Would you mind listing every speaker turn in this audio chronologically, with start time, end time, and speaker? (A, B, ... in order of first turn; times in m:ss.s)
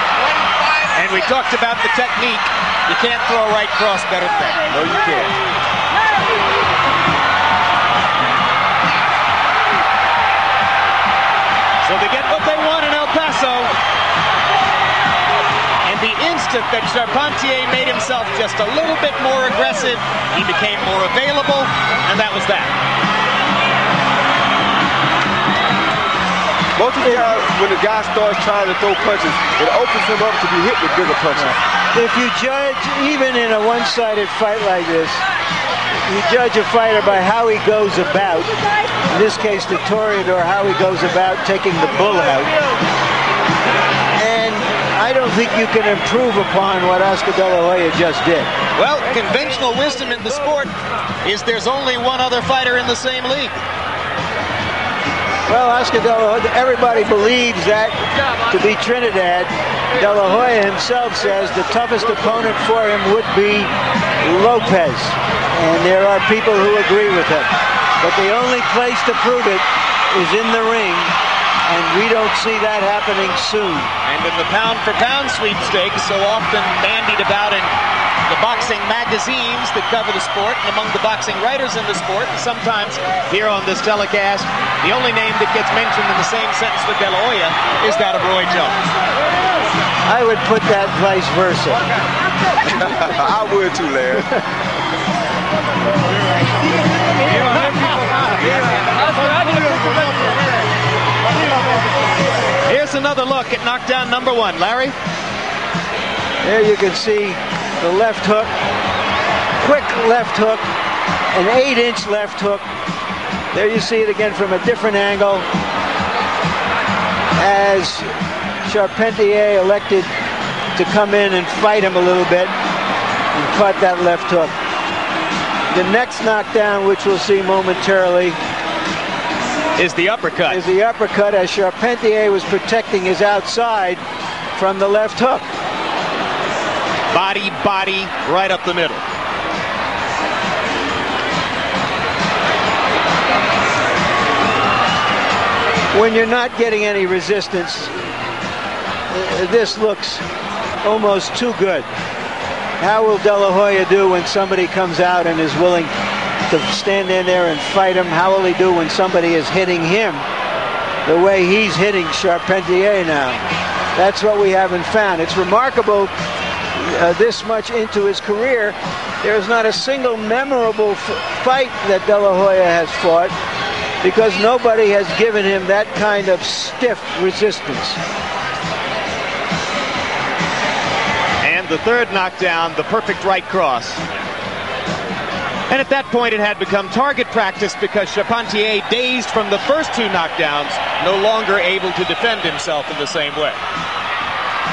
0:00.9-0:04.7 A
0:04.7-0:05.3 B
0:11.8-0:13.7 A
0:15.8-0:22.7 A
0:26.8-0:31.6 B
0:31.9-0:35.2 C
0:36.0-0:38.5 C
0:39.1-0:42.5 C
0:44.1-0:48.5 C
0:48.7-0:53.6 A
0:55.5-1:03.7 C
1:04.2-1:11.1 C
1:11.6-1:13.9 C
1:14.0-1:17.7 A
1:18.2-1:28.8 A
1:30.0-1:31.8 C
1:32.7-1:34.3 B
1:42.6-1:44.9 A
1:46.4-1:48.5 C
1:49.6-1:50.6 C
1:51.3-1:52.6 C
1:53.5-1:55.4 C
1:57.4-1:58.1 C
1:58.6-2:00.1 C
2:00.7-2:02.5 C
2:03.3-2:04.5 C
2:05.7-2:08.4 C
2:09.8-2:10.6 A
2:10.5-2:14.0 C
2:14.6-2:15.4 C
2:17.1-2:19.0 A
2:25.9-2:27.9 C
2:29.1-2:30.2 C
2:30.8-2:31.8 C
2:32.8-2:35.9 C
2:36.5-2:40.2 C
2:41.0-2:43.4 C
2:43.9-2:46.1 C
2:46.7-2:53.3 C
2:54.0-2:58.0 C
3:01.4-3:04.0 A
3:05.7-3:13.6 A